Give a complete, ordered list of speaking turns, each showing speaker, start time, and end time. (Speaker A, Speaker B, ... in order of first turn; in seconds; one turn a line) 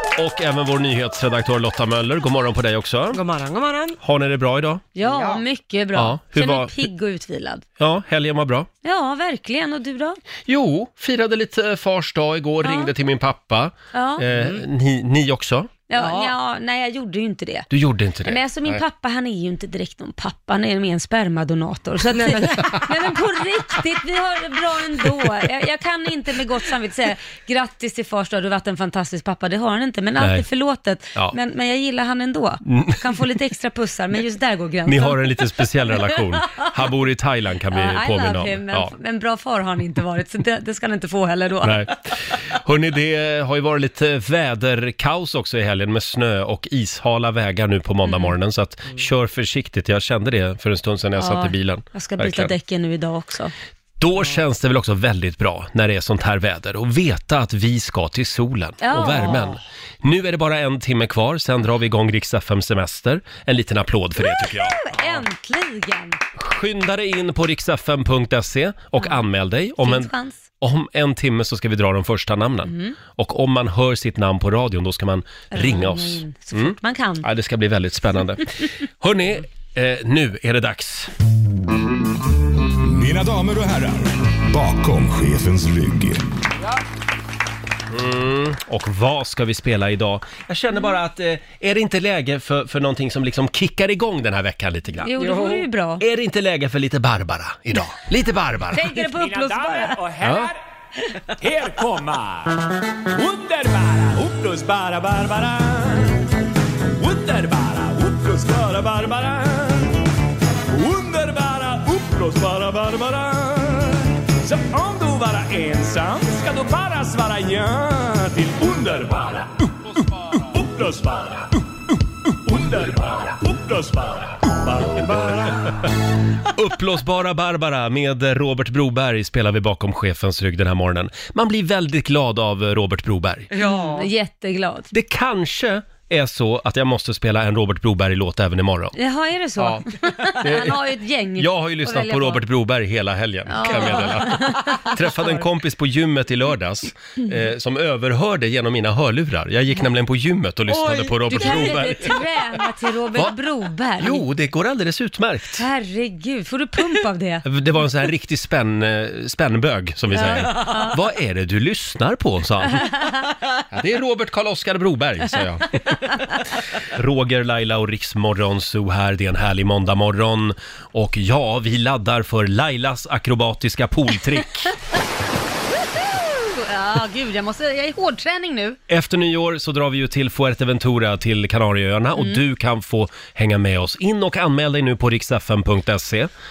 Speaker A: 0.2-3.2
Speaker B: 3.1-4.0
Speaker A: 4.0-4.9
Speaker C: 5.0-7.7
Speaker B: 5.0-5.4
Speaker A: 6.0-6.7
Speaker A: 7.8-8.7
Speaker C: 8.8-10.2
Speaker A: 10.5-15.7
Speaker C: 12.6-12.9
Speaker C: 13.9-14.2
Speaker B: 14.3-14.6
Speaker C: 15.9-17.7
Speaker B: 15.9-16.3
Speaker A: 17.7-18.8
Speaker C: 18.2-36.7
Speaker B: 22.1-22.8
Speaker A: 30.2-30.4
Speaker A: 32.6-33.0
Speaker A: 34.9-38.9
Speaker C: 37.7-41.9
Speaker A: 41.6-52.5
Speaker C: 48.0-48.4
Speaker C: 51.2-53.5
Speaker A: 54.0-65.2
Speaker C: 58.8-59.6
Speaker C: 64.2-66.2
Speaker A: 66.3-81.1
Speaker C: 69.0-69.2
Speaker C: 69.8-70.4
Speaker C: 72.7-73.0
Speaker C: 75.5-77.2
Speaker D: 82.8-86.3
Speaker A: 87.9-95.1
Speaker C: 95.0-96.0
Speaker B: 95.2-95.7
Speaker A: 96.0-98.9
Speaker C: 98.7-100.0
Speaker E: 99.2-100.6
Speaker A: 100.2-100.5
Speaker E: 101.4-102.6
Speaker E: 103.1-106.3
Speaker E: 107.0-110.0
Speaker E: 110.7-121.5
Speaker E: 122.5-125.8
Speaker A: 126.5-133.5
Speaker B: 133.5-134.1
Speaker C: 133.6-134.9
Speaker A: 134.9-139.0
Speaker C: 139.0-142.4
Speaker A: 139.6-140.8
Speaker A: 141.4-152.2
Speaker C: 143.5-145.4
Speaker B: 150.7-151.9
Speaker C: 151.3-154.3
Speaker A: 154.0-155.6
Speaker C: 155.6-157.4
Speaker A: 157.4-163.0
Speaker C: 160.1-161.0
Speaker A: 163.7-166.0
Speaker A: 166.8-174.7
Speaker C: 176.2-178.8
Speaker A: 178.9-186.3
Speaker C: 182.2-182.4